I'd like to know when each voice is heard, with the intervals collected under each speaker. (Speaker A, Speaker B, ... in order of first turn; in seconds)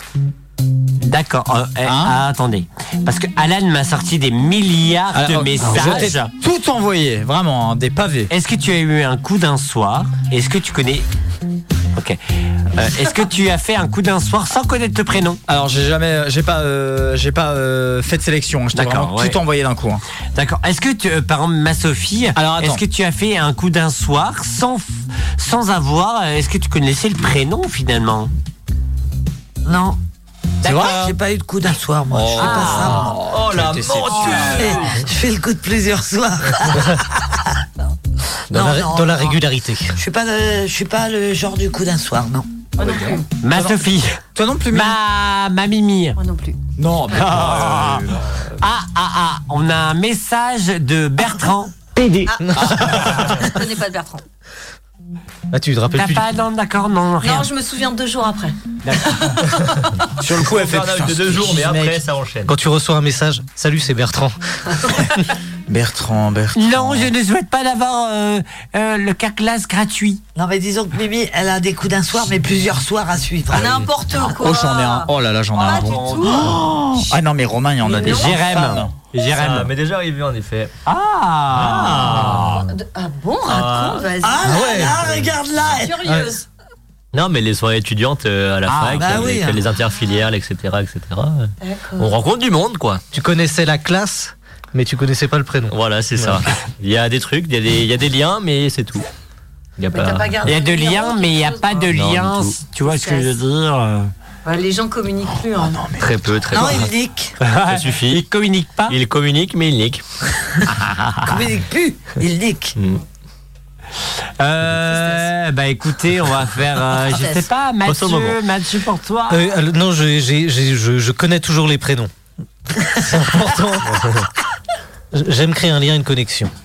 Speaker A: 1.0-6.3, 8.3-11.1, 12.7-15.4, 18.7-19.4, 20.3-28.3, 30.6-31.0, 32.4-33.0, 34.2-34.6, 43.4-44.1, 44.7-46.2, 47.2-48.0, 48.6-51.8, 55.9-57.5, 58.9-59.2, 66.6-70.2, 77.9-79.7, 80.9-82.6, 88.7-89.0, 100.4-104.1, 107.4-109.0, 114.4-119.5
Speaker B: 1.8-2.2, 5.1-8.3, 15.5-20.0, 22.4-22.8, 30.6-31.1, 32.1-34.7, 42.8-43.8, 44.4-45.0, 46.8-48.2, 52.6-53.3, 60.2-62.0, 65.7-67.1, 74.2-78.9
Speaker C: 29.6-30.0, 30.7-33.2, 34.2-37.3, 38.5-39.4, 40.0-42.5, 70.3-73.9, 84.2-86.2, 88.9-89.6, 106.5-107.3, 111.3-112.8
Speaker D: 33.3-34.7, 60.3-62.5, 75.7-76.4, 79.3-80.7, 81.8-82.6, 83.5-84.1, 84.9-85.3, 87.1-93.0, 95.7-99.0, 99.8-100.5, 101.9-102.6, 105.9-106.9, 107.7-108.2, 108.9-110.0, 117.8-118.4
Speaker E: 38.5-40.0, 52.6-52.9, 55.5-56.3, 62.5-64.4, 93.1-96.4, 119.3-122.1, 123.0-124.0, 125.1-126.5
Speaker F: 42.8-43.2, 46.2-46.6, 53.3-54.2, 57.2-59.7, 73.5-76.6, 77.8-78.4, 82.7-85.0, 85.8-86.5, 91.6-92.1, 99.9-102.0, 102.8-103.3, 104.5-105.9, 114.9-115.2, 117.1-117.5